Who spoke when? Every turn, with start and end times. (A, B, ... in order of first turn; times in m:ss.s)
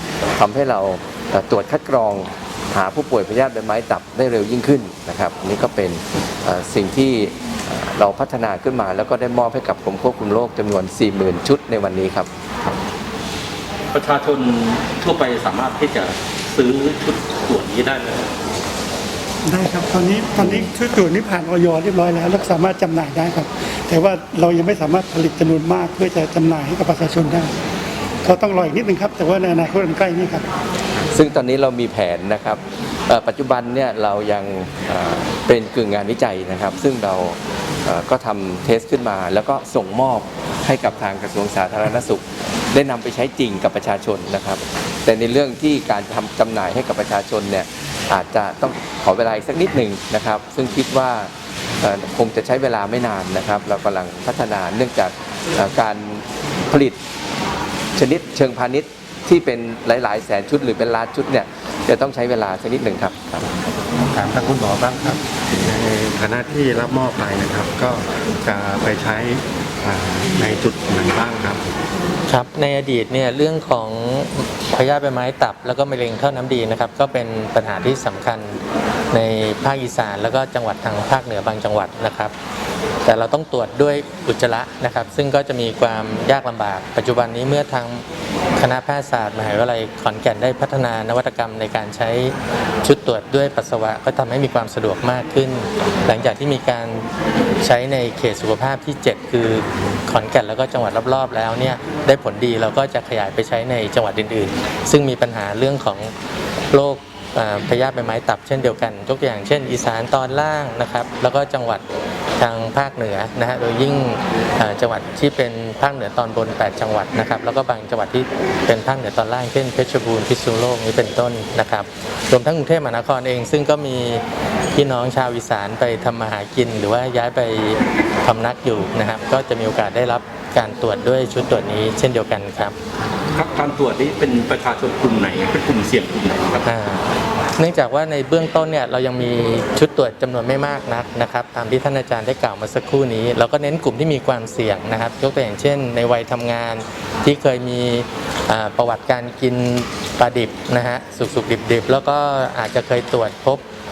0:00.3-0:12.3 A
0:13.9-0:18.3 B
0:19.4-0:27.5 C
0:28.2-0:30.5 C
0:31.1-0:57.0 A
0:58.0-1:03.5 A
1:04.1-1:11.6 D
1:12.3-1:18.6 E
1:19.1-1:22.3 E
1:23.0-1:28.0 E
1:28.6-1:37.1 E
1:37.6-1:46.1 E
1:46.7-1:51.8 E
1:52.4-2:12.8 E
2:13.3-2:16.6 B
2:16.6-2:17.0 E
2:17.6-2:33.6 E